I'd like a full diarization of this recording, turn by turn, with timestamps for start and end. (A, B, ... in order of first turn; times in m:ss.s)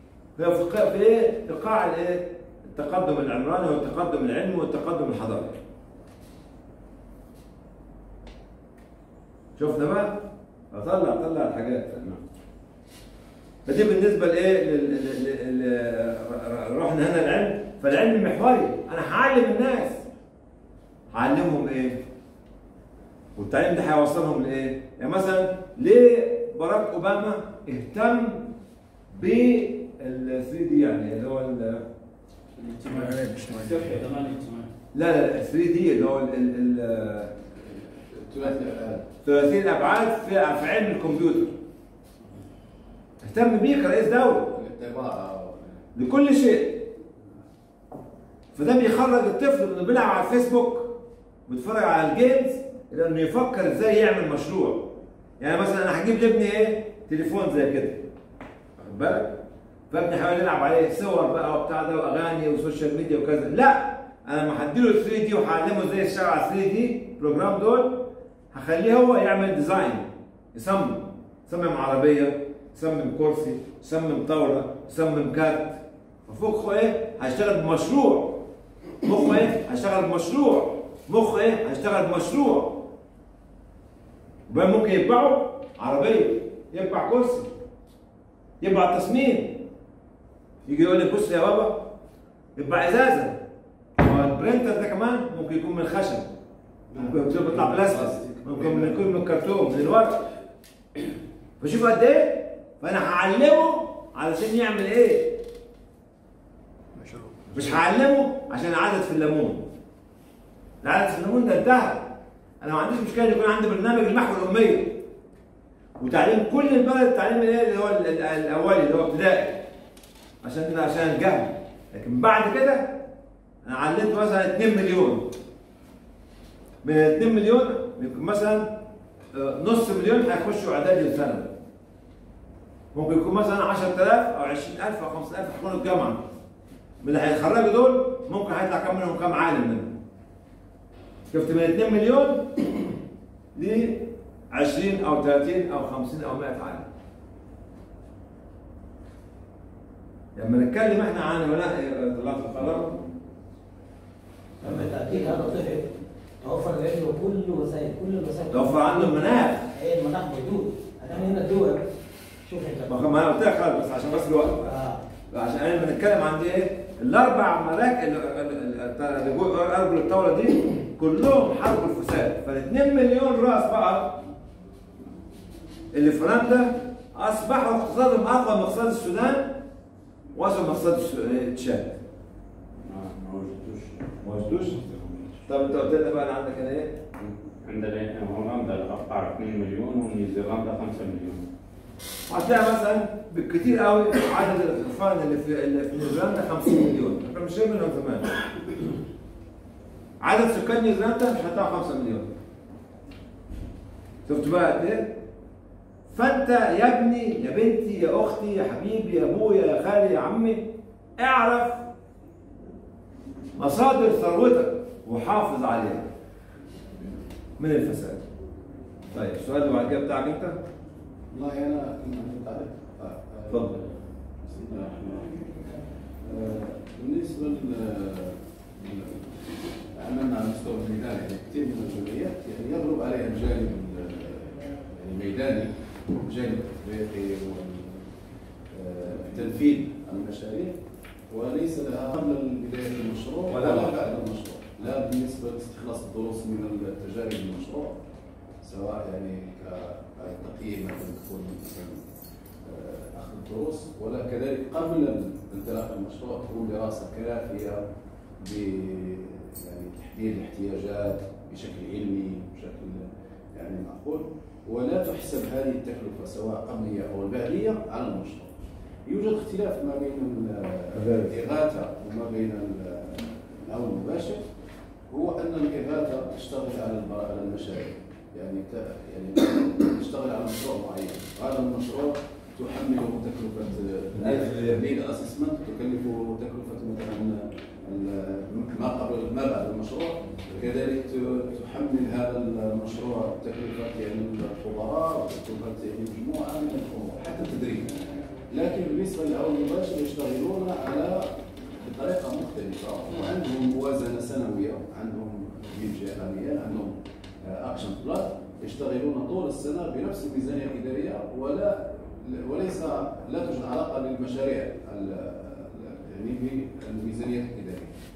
0:00.4-0:05.6 A
0:09.6-0:12.1 A
0:13.7-0:20.0 A
0:21.1-0:22.0 A
0:23.4-0:28.4 A
0:29.1-0:31.8 A
0:32.6-0:34.7 B
0:34.9-0:37.3 A
0:37.6-0:39.0 C
0:39.2-0:41.5 A
0:43.2-0:44.5 A
0:44.5-0:45.8 C
0:46.0-0:46.9 A
0:48.6-0:50.9 A
0:51.5-0:54.9 A
0:55.4-0:58.0 A
0:58.8-0:59.4 A
0:59.9-1:08.0 A
1:08.5-1:18.4 A
1:19.0-1:22.8 A
1:24.5-1:27.5 A
1:28.6-1:29.6 A
1:30.7-1:31.8 A
1:32.6-1:33.4 A
1:34.0-1:36.3 A
1:36.9-1:39.3 C
1:37.0-1:40.2 A
1:41.6-1:45.4 A
1:47.5-1:49.6 A
1:50.8-1:52.0 A
1:52.6-1:55.0 A
1:56.0-1:59.6 A
2:00.4-2:02.9 A
2:03.6-2:05.3 A
2:06.8-2:08.7 A
2:09.3-2:11.5 A
2:12.9-2:16.2 A
2:17.0-2:20.0 A
2:21.3-2:22.6 A
2:23.6-2:26.9 A
2:30.4-2:33.0 A
2:34.6-2:35.9 D
2:34.6-2:35.3 A
2:36.4-2:41.8 D
2:38.5-2:39.7 A
2:42.4-2:43.1 D
2:42.9-2:44.8 A
2:44.6-2:45.0 D
2:45.3-2:54.2 A
2:55.9-2:59.5 A
3:00.4-3:02.0 A
3:02.9-3:04.1 E
3:04.2-3:04.8 A
3:04.6-3:05.3 E
3:05.5-3:07.0 A
3:07.2-3:11.4 E
3:12.3-3:18.3 A
3:20.2-3:22.3 A
3:24.3-3:25.1 A
3:26.1-3:30.6 A
3:31.2-3:31.8 A
3:33.6-3:36.1 A
3:37.6-3:38.2 A
3:39.1-3:40.6 A
3:41.3-3:43.9 C
3:43.5-3:43.8 A
3:44.4-3:45.6 C
3:46.2-3:58.1 C
3:58.7-4:00.8 C
4:01.3-4:08.0 C
4:03.5-4:04.0 A
4:08.6-4:12.1 C
4:12.6-4:17.8 C
4:18.4-4:34.4 C
4:30.9-4:31.4 A
4:35.1-4:57.9 C
4:44.2-4:44.8 A
4:58.5-5:01.3 C
5:01.8-5:17.9 C